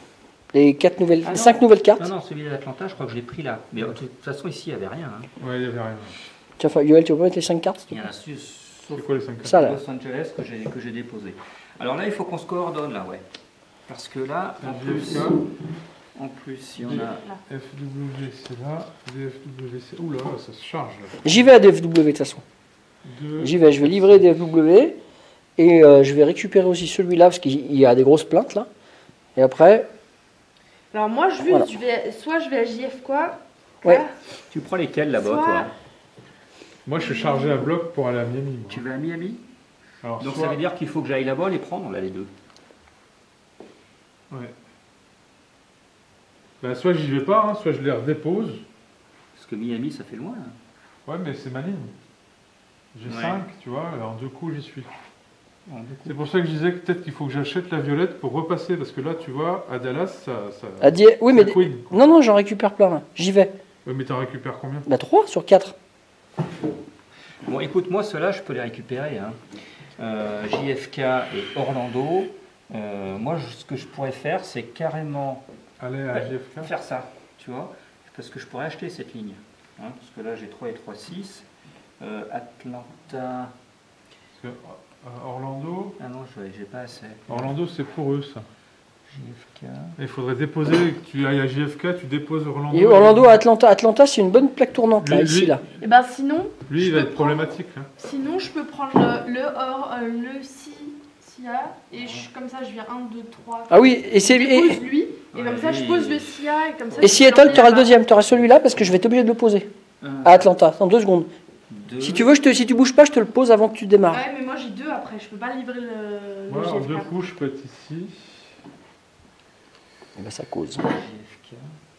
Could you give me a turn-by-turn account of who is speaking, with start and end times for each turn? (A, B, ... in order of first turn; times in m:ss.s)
0:00.5-0:02.1 A
0:01.2-0:05.3 B
0:05.4-0:06.1 C
0:06.6-0:08.0 A
0:07.9-0:13.2 B
0:08.9-0:09.6 C
0:09.4-0:09.8 A
0:13.9-0:15.4 B
0:14.6-0:15.4 C
0:16.1-0:17.2 B
0:16.8-0:21.4 C
0:17.0-0:17.4 D
0:21.2-0:22.4 A
0:23.0-0:24.2 C
0:23.4-0:25.0 A
0:25.6-0:28.7 A
0:29.4-0:29.9 A
0:30.9-0:34.1 D
0:34.5-0:35.7 B
0:35.1-0:35.7 D
0:36.8-0:38.8 C
0:37.0-0:37.7 D
0:38.7-0:39.4 B
0:40.0-0:40.6 C
0:40.2-0:42.3 B
0:46.6-0:48.6 C
0:49.3-0:50.6 B
0:51.0-0:51.9 C
0:52.9-0:54.9 C
0:53.0-0:53.4 B
0:55.7-0:56.2 B
0:56.0-1:02.0 C
1:00.8-1:03.5 A
1:03.8-1:04.9 C
1:04.9-1:05.7 A
1:07.4-1:09.4 B
1:10.0-1:15.4 B
1:15.8-1:16.7 C
1:16.1-1:21.5 B
1:22.0-1:23.5 B
1:24.3-1:26.0 C
1:26.0-1:27.5 B
1:27.3-1:28.4 C
1:29.1-1:30.0 B
1:30.0-1:33.4 C
1:32.7-1:35.6 A
1:35.0-1:35.6 C
1:35.8-1:37.5 D
1:36.7-1:37.9 C
1:38.0-1:47.9 D
1:42.0-1:42.2 B
1:43.7-1:44.8 A
1:45.3-1:47.7 B
1:47.0-1:49.7 A
1:50.0-1:50.5 B
1:50.2-1:51.3 A
1:51.7-1:52.4 B
1:52.0-1:54.2 A
1:54.1-1:57.2 D
1:56.5-1:58.5 C
2:00.2-2:00.9 A
2:00.7-2:01.7 B